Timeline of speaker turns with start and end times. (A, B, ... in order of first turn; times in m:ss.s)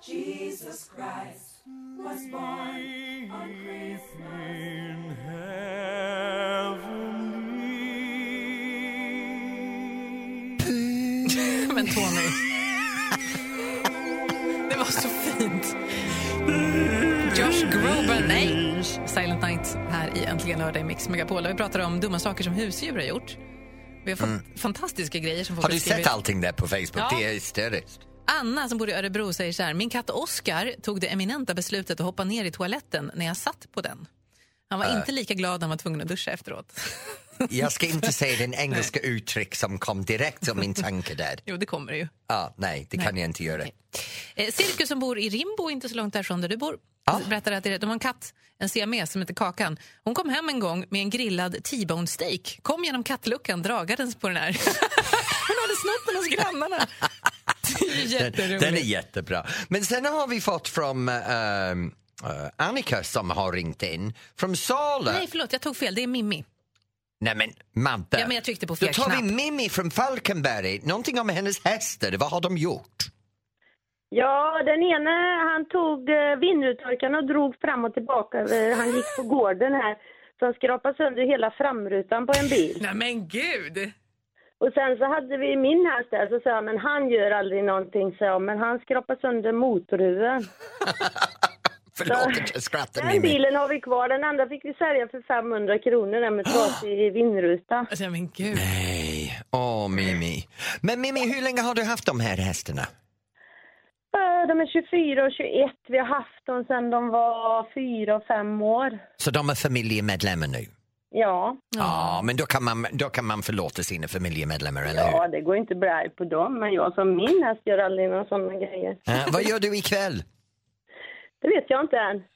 0:10.6-0:12.0 A
0:11.2-0:12.4 B
0:14.7-0:15.8 B
0:17.2-0:23.4 B
0:24.0-0:26.1 B
0:25.6-0:28.0 A
0:27.0-0:27.2 B
0:28.2-0:34.1 B
0:34.7-0:37.5 B
0:37.5-0:41.4 A
0:41.4-0:42.1 B
0:42.3-0:43.7 A
0:43.0-0:43.7 B
0:44.4-0:56.9 B
0:57.6-0:58.9 B
0:58.0-1:05.2 A
1:05.1-1:06.4 B
1:07.2-1:13.1 A
1:08.2-1:09.2 B
1:14.1-1:22.8 C
1:22.8-1:23.9 B
1:24.6-1:30.5 C
1:30.8-1:31.3 A
1:31.9-1:33.4 A
1:32.1-1:37.9 C
1:37.9-1:38.7 B
1:38.5-1:42.9 A
1:44.1-1:49.0 C
1:49.2-1:50.7 A
1:51.1-1:51.6 C
1:51.7-1:52.2 B
1:51.8-1:55.2 A
1:54.9-1:59.2 C
1:59.1-2:00.2 A
2:01.4-2:02.2 C